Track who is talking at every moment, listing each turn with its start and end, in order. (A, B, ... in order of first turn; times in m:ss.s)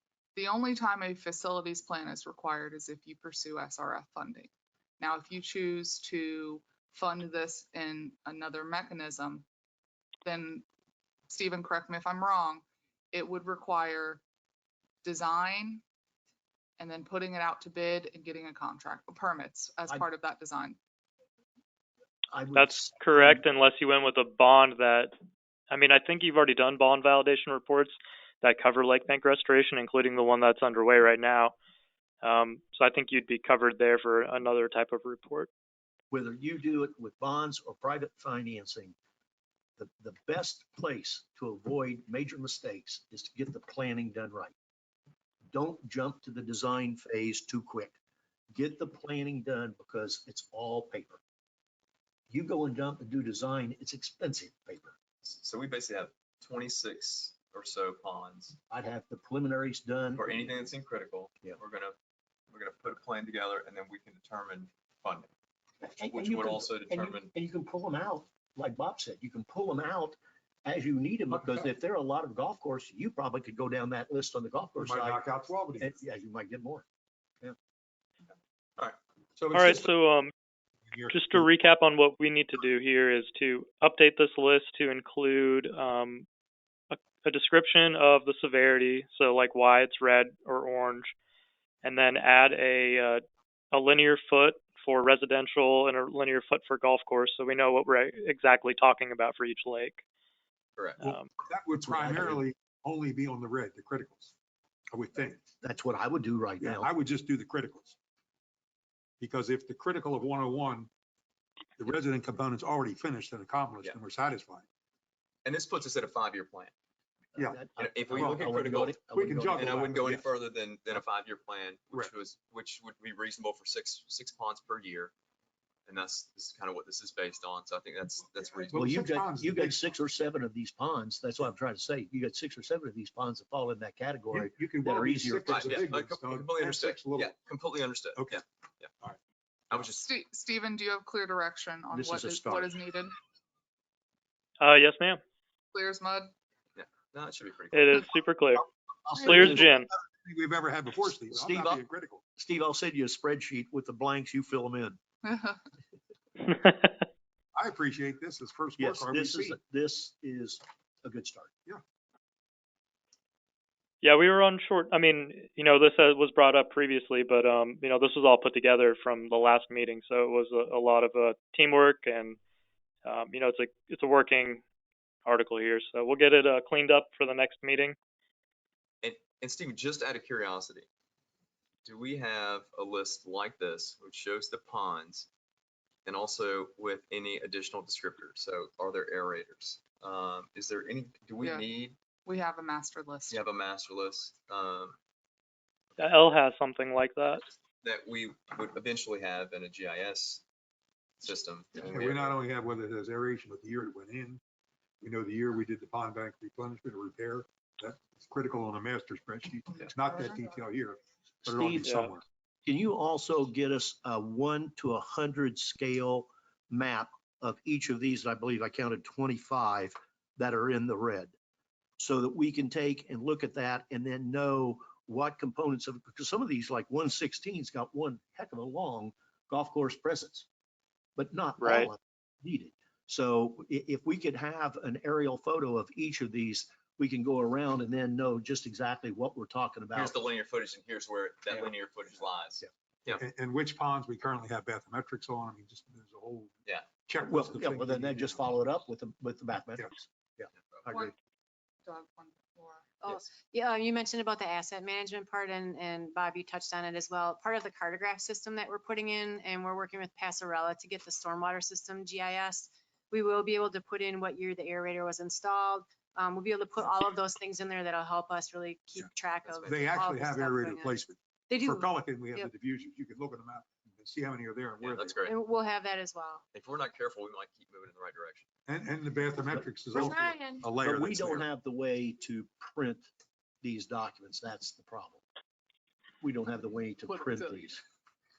0:00.3-0:09.4 A
0:10.2-0:10.6 A
0:11.3-0:14.2 A
0:15.0-0:15.8 A
0:16.8-0:20.8 A
0:22.3-0:23.4 B
0:22.5-0:25.1 C
0:25.7-0:31.5 C
0:32.2-0:35.5 C
0:36.1-0:38.9 B
0:39.8-0:44.5 B
0:45.5-0:48.0 B
0:48.5-0:51.2 B
0:52.3-0:55.0 B
0:55.2-0:58.6 D
0:58.7-1:00.4 B
1:00.1-1:01.9 D
1:02.5-1:05.3 D
1:05.8-1:16.8 B
1:06.1-1:07.3 D
1:14.8-1:16.0 E
1:18.3-1:19.0 D
1:19.4-1:19.9 E
1:19.5-1:20.3 C
1:20.8-1:21.5 E
1:21.1-1:26.2 C
1:26.9-1:31.1 C
1:31.8-1:40.0 C
1:40.8-1:41.1 D
1:41.0-1:44.3 E
1:41.8-1:42.4 B
1:44.9-1:45.5 E
1:45.6-1:46.9 B
1:46.6-1:48.0 E
1:49.2-1:50.9 E
1:51.8-1:54.6 E
1:55.4-1:56.7 D
1:57.4-1:59.8 B
1:57.8-1:59.0 D
1:58.1-2:00.2 E
1:59.5-2:05.1 D
2:05.9-2:08.7 D
2:08.4-2:09.9 E
2:08.7-2:15.8 B
2:14.3-2:17.3 E
2:15.5-2:18.9 D
2:18.2-2:18.4 E
2:19.7-2:20.0 D
2:19.9-2:23.1 A
2:21.9-2:22.7 B
2:24.6-2:25.2 C
2:25.7-2:26.3 A
2:26.8-2:28.1 D
2:27.7-2:28.6 C
2:29.0-2:29.7 B
2:29.2-2:29.9 C
2:29.3-2:32.2 E
2:31.3-2:31.8 B
2:32.4-2:35.0 B
2:35.2-2:35.6 A
2:36.4-2:37.0 C
2:37.5-2:39.6 E
2:38.8-2:41.5 B
2:44.0-2:52.4 C
2:53.0-2:54.6 C
2:55.2-2:58.0 C
2:59.0-3:00.9 D
3:01.8-3:05.3 D
3:06.0-3:12.0 D
3:12.2-3:13.4 A
3:13.3-3:15.0 D
3:16.0-3:17.4 C
3:17.8-3:20.4 D
3:21.2-3:22.4 D
3:21.9-3:24.4 E
3:25.0-3:32.2 E
3:29.7-3:30.4 A
3:31.4-3:32.1 B
3:31.8-3:32.1 C
3:32.6-3:41.3 B
3:42.0-3:50.5 B
3:51.2-4:00.1 B
3:51.6-3:51.9 C
3:59.9-4:03.2 D
4:03.1-4:06.5 E
4:07.0-4:08.4 E
4:07.3-4:11.1 B
4:10.9-4:11.1 A
4:11.8-4:12.9 A
4:13.0-4:31.0 F
4:29.4-4:29.9 D
4:29.6-4:35.2 E
4:31.5-4:32.5 F
4:34.8-4:35.4 D
4:35.2-4:36.4 F
4:36.5-4:38.5 D
4:38.7-4:41.4 E
4:39.5-4:40.2 B
4:39.9-4:40.6 F
4:40.8-4:43.1 B
4:43.6-4:45.2 B
4:46.2-4:47.8 B
4:47.1-4:47.6 A